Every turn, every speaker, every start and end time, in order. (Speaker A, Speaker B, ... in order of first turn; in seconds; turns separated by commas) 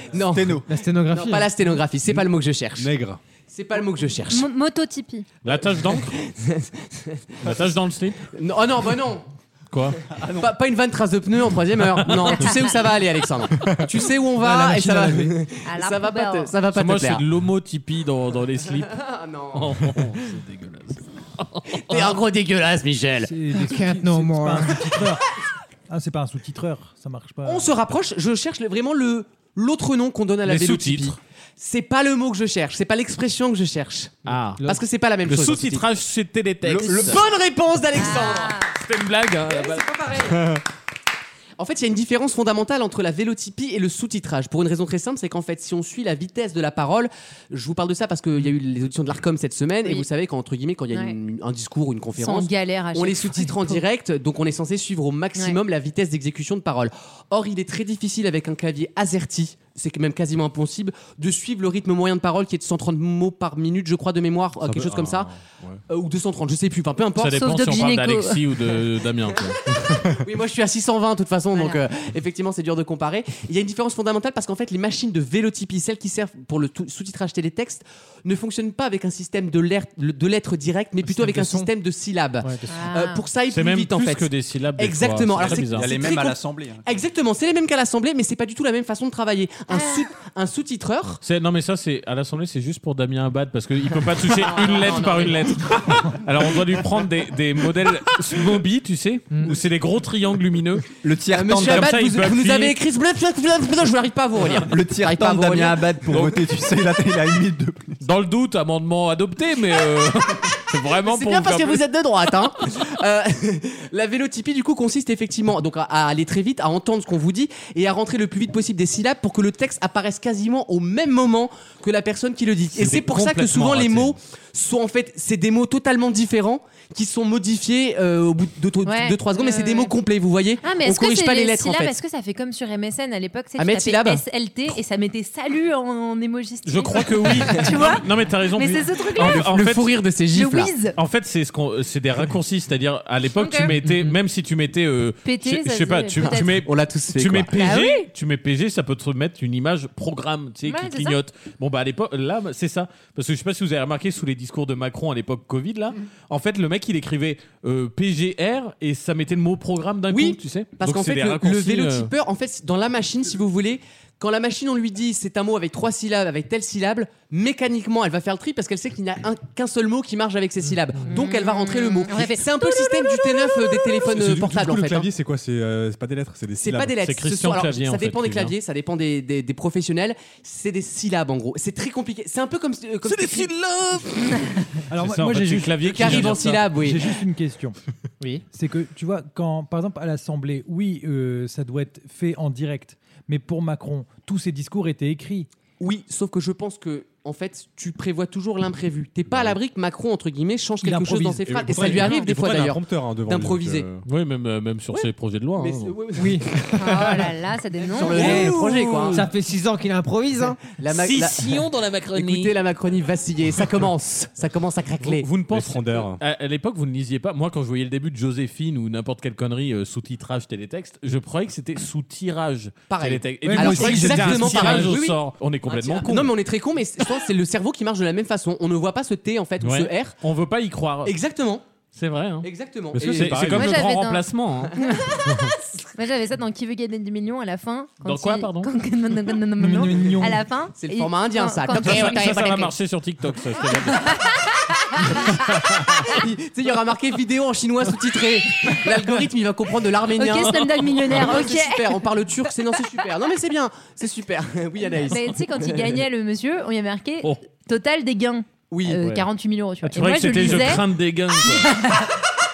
Speaker A: 0.1-2.9, Speaker B: 0.3-0.6, Speaker C: 0.7-1.5, Speaker D: 2.8-3.2, Speaker A: 3.5-4.5, Speaker E: 4.3-5.3, Speaker F: 5.4-6.2, Speaker A: 5.5-7.5, Speaker F: 7.4-8.2, Speaker A: 8.3-9.3, Speaker F: 9.7-10.0, Speaker B: 10.1-10.5, Speaker A: 10.4-17.2, Speaker C: 14.5-15.0, Speaker G: 14.7-15.2, Speaker E: 15.6-16.5, Speaker F: 16.7-19.0, Speaker A: 18.9-19.9, Speaker F: 19.5-22.2, Speaker A: 21.9-23.3, Speaker G: 23.3-25.3, Speaker C: 23.5-24.7, Speaker G: 25.9-27.7, Speaker A: 27.4-35.9, Speaker F: 30.4-31.2, Speaker F: 34.3-34.7, Speaker C: 34.3-34.9, Speaker F: 35.2-37.2, Speaker B: 36.6-37.0, Speaker A: 36.8-38.6, Speaker E: 38.0-38.7, Speaker F: 38.7-39.9, Speaker A: 39.5-40.4, Speaker D: 40.3-40.6, Speaker A: 41.6-65.3, Speaker E: 52.2-53.8, Speaker D: 64.6-65.8, Speaker A: 65.9-67.4, Speaker F: 67.2-69.6, Speaker E: 67.3-68.4, Speaker A: 70.2-91.2, Speaker E: 71.5-71.8, Speaker C: 81.0-81.7, Speaker E: 82.7-83.2, Speaker F: 83.5-85.9, Speaker B: 85.6-86.8, Speaker E: 89.7-90.0, Speaker F: 91.2-100.8, Speaker A: 94.2-95.7, Speaker C: 99.3-99.5, Speaker B: 101.0-101.9, Speaker A: 101.3-106.2, Speaker F: 101.5-102.8, Speaker B: 104.7-108.0, Speaker F: 108.0-111.8, Speaker A: 111.0-131.9, Speaker F: 122.7-124.1, Speaker E: 128.8-129.9, Speaker E: 130.6-139.4, Speaker A: 133.6-134.2, Speaker F: 136.7-140.0, Speaker A: 139.2-140.7, Speaker E: 140.3-140.9, Speaker F: 140.9-162.1, Speaker E: 143.4-143.7, Speaker C: 143.8-144.1, Speaker E: 145.2-146.5, Speaker A: 146.2-147.5, Speaker E: 147.5-148.1, Speaker E: 150.7-151.2, Speaker A: 160.1-175.1, Speaker E: 171.1-173.9, Speaker D: 174.1-177.0, Speaker A: 176.6-183.5, Speaker F: 177.0-178.5, Speaker F: 183.1-186.7, Speaker G: 184.9-187.8, Speaker A: 185.8-187.1, Speaker G: 188.5-195.5, Speaker A: 195.8-203.8, Speaker D: 199.3-199.6, Speaker G: 200.8-202.2, Speaker D: 201.4-204.0, Speaker F: 204.1-205.9, Speaker A: 204.9-206.4, Speaker C: 206.1-207.3, Speaker E: 206.8-208.3, Speaker A: 207.9-209.3, Speaker C: 208.0-210.7, Speaker F: 208.1-208.6, Speaker A: 210.8-211.6, Speaker F: 210.9-212.5, Speaker A: 212.1-215.3, Speaker F: 215.0-226.3, Speaker D: 215.5-216.2, Speaker A: 222.9-230.1, Speaker G: 223.4-225.0, Speaker F: 229.6-231.1, Speaker A: 231.1-231.6, Speaker F: 231.9-232.5, Speaker A: 232.4-233.6, Speaker D: 232.9-233.7, Speaker F: 233.0-234.7, Speaker E: 233.5-235.3, Speaker E: 235.9-242.6, Speaker F: 238.0-238.7, Speaker G: 239.6-240.4, Speaker A: 240.8-242.7, Speaker F: 241.8-244.2, Speaker E: 243.9-245.5, Speaker F: 245.4-245.9, Speaker A: 246.0-255.8, Speaker E: 250.2-252.0, Speaker F: 250.5-251.3, Speaker E: 255.1-260.8, Speaker A: 258.7-259.0, Speaker F: 259.8-261.7, Speaker E: 261.4-262.2